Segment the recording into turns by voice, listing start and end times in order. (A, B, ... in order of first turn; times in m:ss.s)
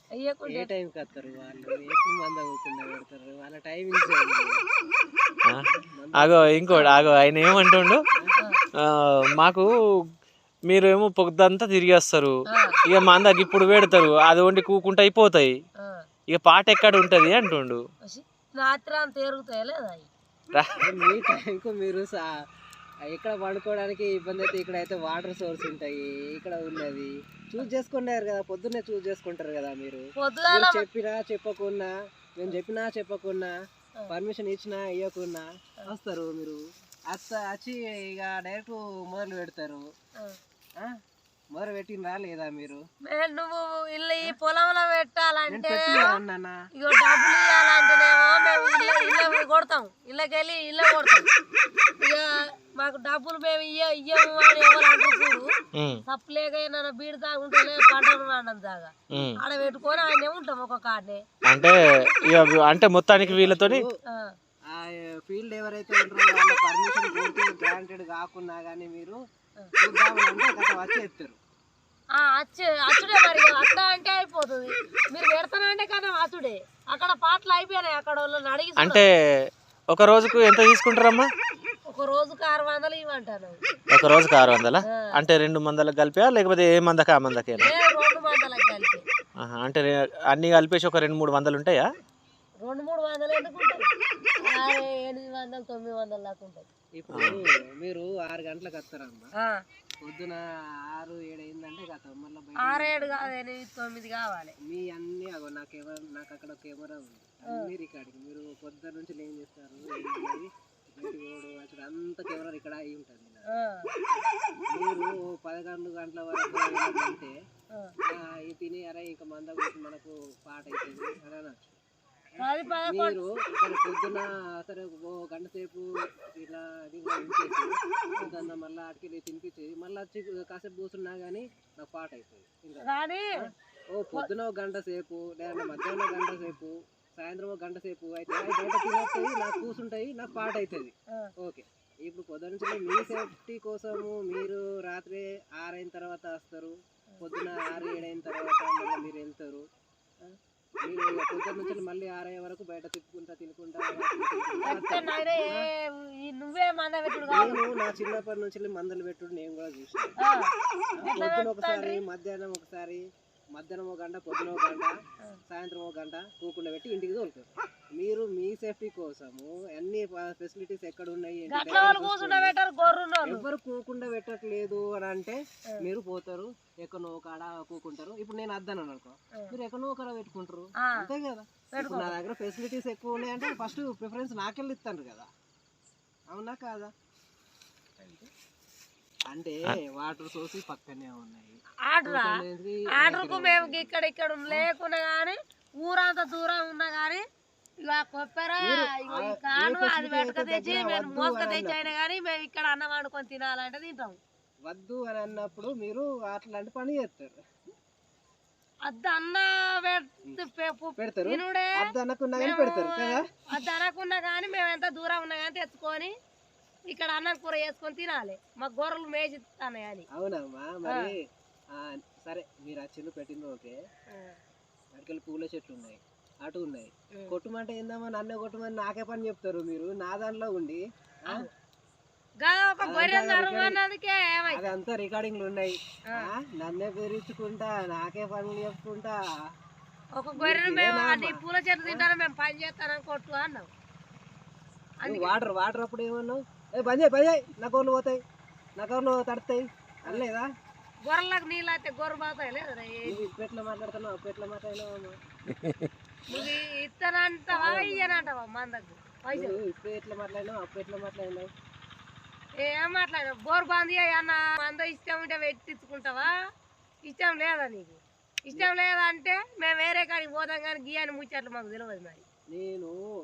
0:00.2-0:00.7 A
0:00.5-0:04.5 B
0:05.7-0:06.9 B
0:06.2-0:08.0 C
0:08.8-0:09.7 C
0:10.7-0:12.3 C
0:12.5-0:12.8 A
0:12.9-0:15.5 C
0:15.8-0:16.1 A
0:16.3-0:17.8 C
0:18.0-0:20.1 A
0:20.5-0:20.8 C
0:20.8-0:22.3 B
0:23.1-0:33.5 B
0:30.2-0:30.9 A
0:34.1-0:36.6 B
0:37.1-0:39.8 B
0:41.5-0:42.8 B
0:43.0-0:46.2 A
0:45.5-0:46.6 B
0:46.8-0:51.3 A
0:52.0-0:55.5 A
0:56.1-1:01.2 A
0:59.1-0:59.4 C
1:01.5-1:01.8 C
1:02.3-1:03.8 C
1:03.2-1:03.9 B
1:04.1-1:04.3 A
1:04.7-1:09.2 B
1:09.8-1:11.4 B
1:12.2-1:19.0 A
1:18.8-1:21.3 C
1:21.9-1:23.6 A
1:23.9-1:27.7 C
1:27.6-1:29.0 A
1:29.4-1:31.8 C
1:32.6-1:33.9 A
1:34.4-1:36.7 A
1:37.0-1:39.3 B
1:37.1-1:37.4 C
1:40.0-1:40.4 B
1:40.9-1:43.3 B
1:42.6-1:44.5 A
1:44.6-1:53.5 B
1:53.5-1:53.9 A
1:54.1-1:57.3 B
1:58.1-2:01.8 B
2:02.4-2:05.9 B
2:02.4-2:03.2 A
2:06.4-2:12.9 B
2:12.8-2:13.3 A
2:13.4-2:29.6 B
2:30.9-2:35.7 B
2:34.6-2:37.6 A
2:37.3-2:40.1 B
2:41.0-2:43.0 B
2:41.0-2:42.0 A
2:43.6-2:44.9 B
2:45.5-3:05.3 B
2:51.5-2:53.5 A
3:00.8-3:01.1 A
3:01.7-3:02.2 A
3:06.3-3:06.9 B
3:08.0-3:08.3 B
3:09.3-3:14.0 B
3:11.9-3:12.3 A
3:13.0-3:17.2 A
3:17.8-3:24.2 A
3:18.6-3:21.9 B
3:24.7-3:27.4 B
3:28.9-3:36.1 A
3:31.0-3:33.3 B
3:36.9-3:40.1 A
3:40.1-3:41.2 B
3:41.7-3:43.8 B
3:44.1-3:44.4 A
3:44.9-3:51.5 B
3:52.4-3:54.7 A
3:52.8-3:53.8 B
3:54.5-3:59.2 B
4:00.2-4:03.7 A
4:00.4-4:02.1 B
4:05.0-4:05.4 A
4:05.0-4:08.2 B
4:08.8-4:10.5 B
4:11.0-4:13.2 A
4:13.0-4:15.2 B
4:15.5-4:15.9 C
4:16.3-4:19.6 A
4:17.5-4:18.3 B
4:19.3-4:21.5 B
4:22.6-4:26.3 A
4:27.0-4:32.2 A
4:32.5-4:33.0 B